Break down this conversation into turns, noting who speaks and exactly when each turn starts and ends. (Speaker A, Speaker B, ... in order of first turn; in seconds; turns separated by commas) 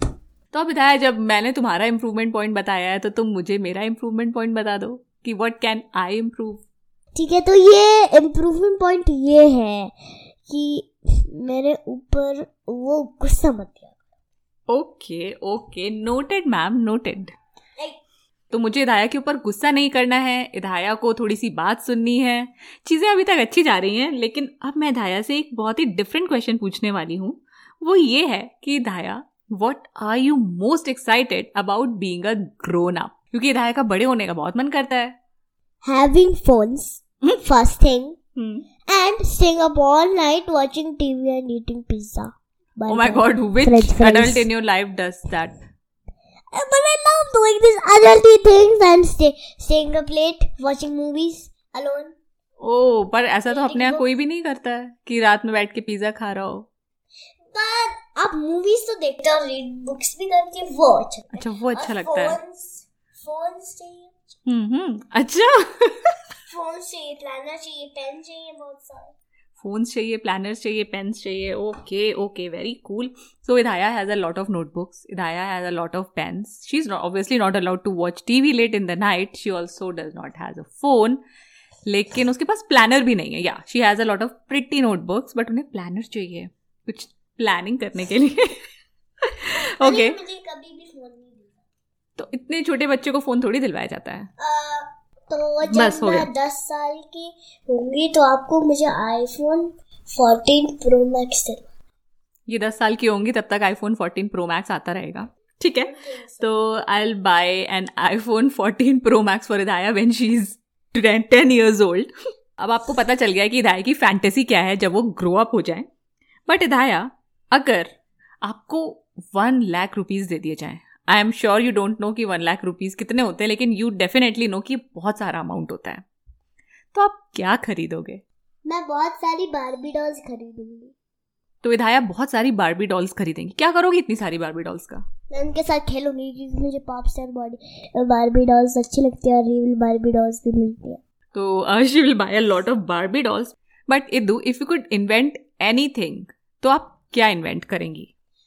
Speaker A: 0.5-6.6, Speaker B: 7.1-13.9, Speaker A: 14.7-17.3, Speaker A: 18.5-35.2, Speaker B: 35.9-38.2, Speaker A: 38.4-38.7, Speaker B: 38.9-44.5, Speaker A: 42.9-45.6, Speaker B: 46.5-52.2, Speaker A: 52.6-56.7, Speaker B: 53.5-54.0, Speaker B: 57.5-64.3, Speaker A: 61.3-62.4, Speaker A: 64.5-66.2, Speaker B: 66.5-69.1, Speaker A: 69.6-81.2, Speaker A: 81.8-88.6, Speaker A: 89.2-90.2, Speaker B: 89.5-91.6, Speaker A: 92.2-94.3, Speaker B: 94.4-101.7, Speaker A: 95.7-96.3, Speaker A: 102.5-115.9, Speaker B: 105.8-106.6, Speaker A: 116.5-126.0, Speaker A: 126.9-128.2, Speaker B: 128.7-130.9, Speaker A: 131.6-135.0, Speaker B: 135.3-141.0, Speaker A: 141.3-148.1